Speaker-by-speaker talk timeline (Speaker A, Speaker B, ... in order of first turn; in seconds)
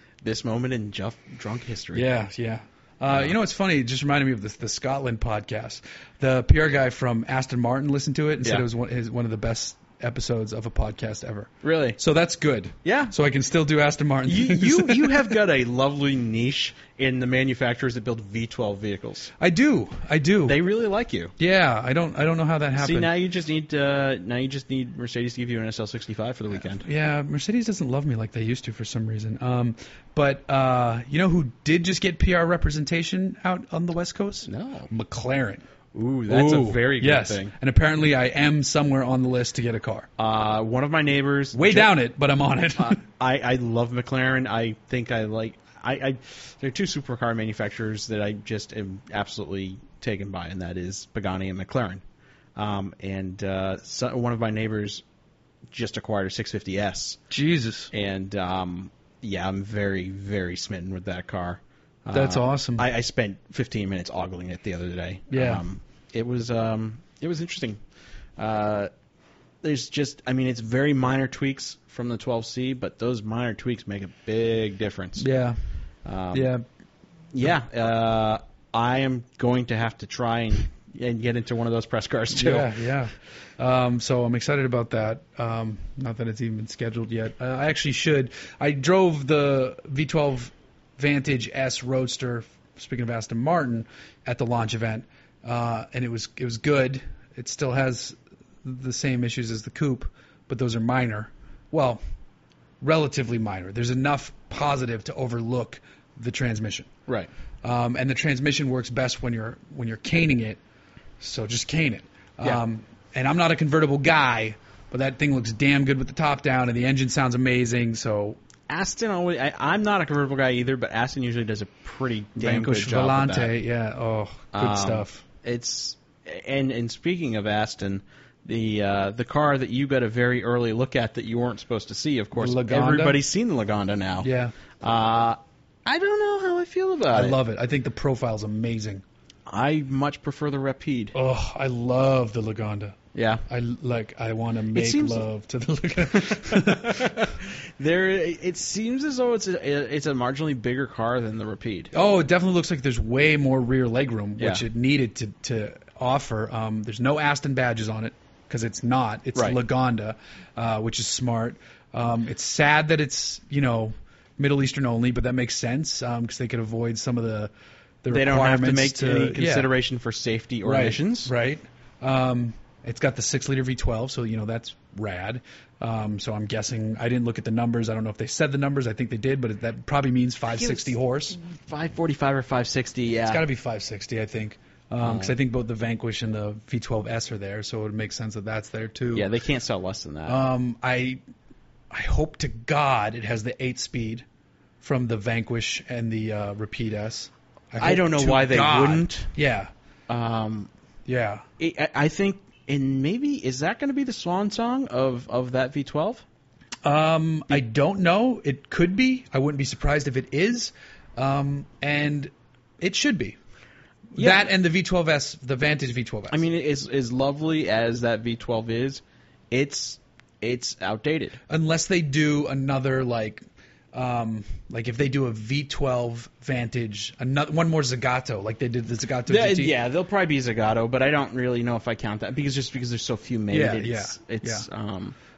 Speaker A: 0.2-2.1, 11.6-12.0, 12.8-13.1, 14.2-19.3, 20.4-21.3, 22.7-26.9, 34.5-34.9, 35.9-37.5, 40.2-41.9, 42.8-52.0, 52.5-55.0, 55.7-57.2, 57.9-67.8, 68.4-68.9, 69.6-75.2, 76.0-76.5, 77.3-82.7, 118.7-123.5, 124.5-134.3, 134.8-137.4, 139.5-141.1, 143.1-143.4, 144.7-145.2, 146.1-151.9, 154.4-154.6, 159.3-159.6, 168.1-171.3, 180.6-183.4, 185.0-185.3, 189.1-190.4, 197.8-199.3, 200.1-200.7, 201.6-206.2, 214.2-214.4, 216.3-221.4, 229.3-235.2
Speaker B: 1.9-15.4, 19.4-20.6, 21.4-23.1, 26.7-35.6, 36.3-40.1, 41.5-43.0, 57.3-57.9, 62.1-62.9, 65.3-65.6, 75.2-75.6, 76.3-76.6, 82.3-102.0, 102.8-106.9, 107.6-110.6, 111.2-118.4, 122.3-125.2, 132.3-133.2, 134.2-134.5, 137.1-139.0, 141.1-143.0, 143.5-147.2, 151.9-167.5, 168.0-169.7, 170.6-181.4, 183.2-189.3, 190.2-191.2, 191.9-194.2, 194.8-199.7, 201.1-201.4, 206.8-213.4, 214.1-216.4, 221.5-229.7, 233.5-234.7